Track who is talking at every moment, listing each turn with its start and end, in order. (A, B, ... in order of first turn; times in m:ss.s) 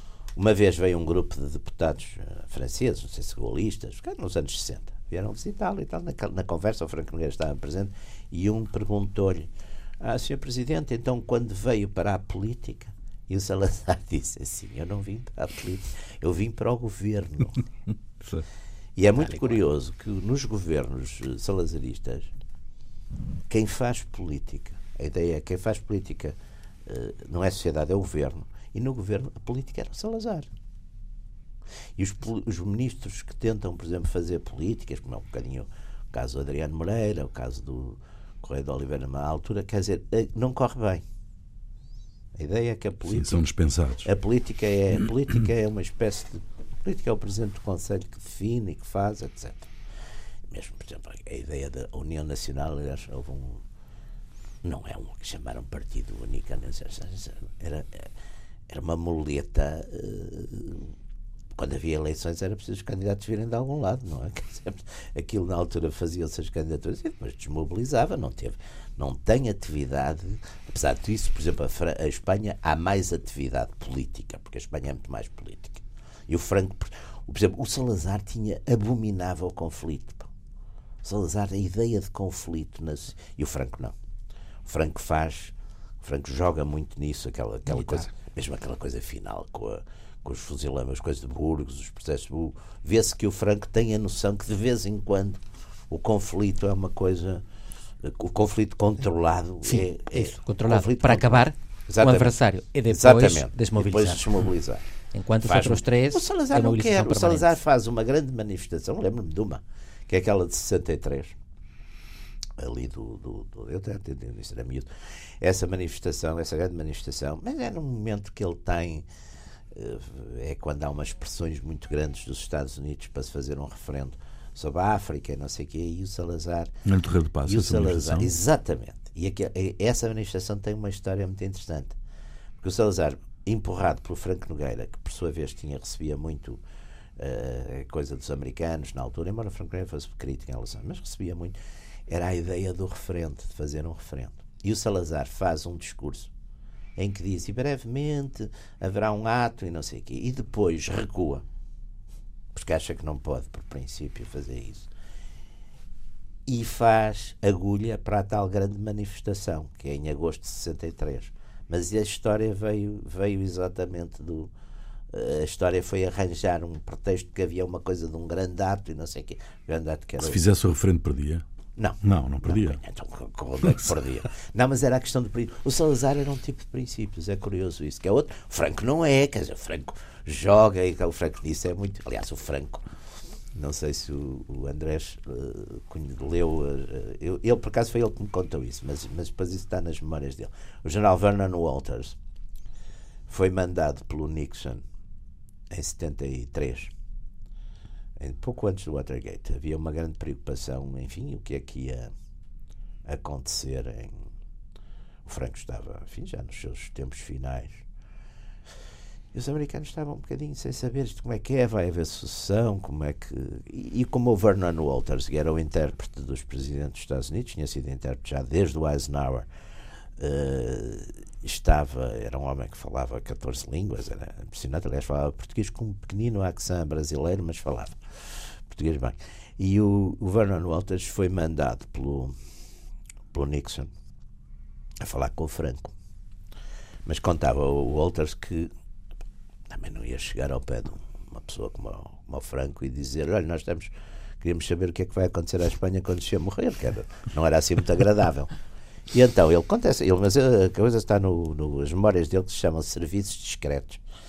0:00.3-0:17.6 A
0:19.0-0:22.3 A
0:19.2-0:19.6 B
0:23.5-0:30.5 A
0:32.0-0:41.0 A
0:42.3-0:43.4 A
0:43.1-0:44.1 C
0:44.0-0:49.7 A
0:50.5-0:53.6 A
0:54.6-0:58.1 A
0:58.7-1:00.9 A
1:01.5-1:20.3 A
1:21.0-1:23.9 A
1:24.6-1:37.4 A
1:27.7-1:28.0 B
1:38.0-1:42.4 A
1:39.6-1:44.3 B
1:42.9-1:44.8 A
1:45.1-1:47.6 B
1:45.4-1:51.4 A
1:52.6-1:54.9 A
1:55.4-1:59.0 A
1:59.7-2:06.8 A
2:06.8-2:08.3 C
2:07.4-2:12.0 A
2:12.6-2:16.6 A
2:17.2-2:21.6 A
2:22.1-2:26.3 A
2:27.0-2:31.4 A
2:32.5-2:34.9 A
2:36.4-2:44.5 A
2:45.1-2:50.4 A
2:50.2-2:51.4 C
2:51.8-3:02.8 A
2:52.0-2:52.8 C
3:03.5-3:12.2 A
3:13.3-3:14.8 A
3:15.7-3:16.9 A
3:18.2-3:22.1 A
3:23.0-3:24.3 A
3:25.2-3:27.8 A
3:29.3-3:39.5 A
3:40.2-3:48.0 A
3:48.7-3:52.3 A
3:53.3-3:53.9 A
3:55.0-3:55.9 A
3:57.0-3:58.7 A
3:59.7-4:08.5 A
4:09.1-4:14.0 A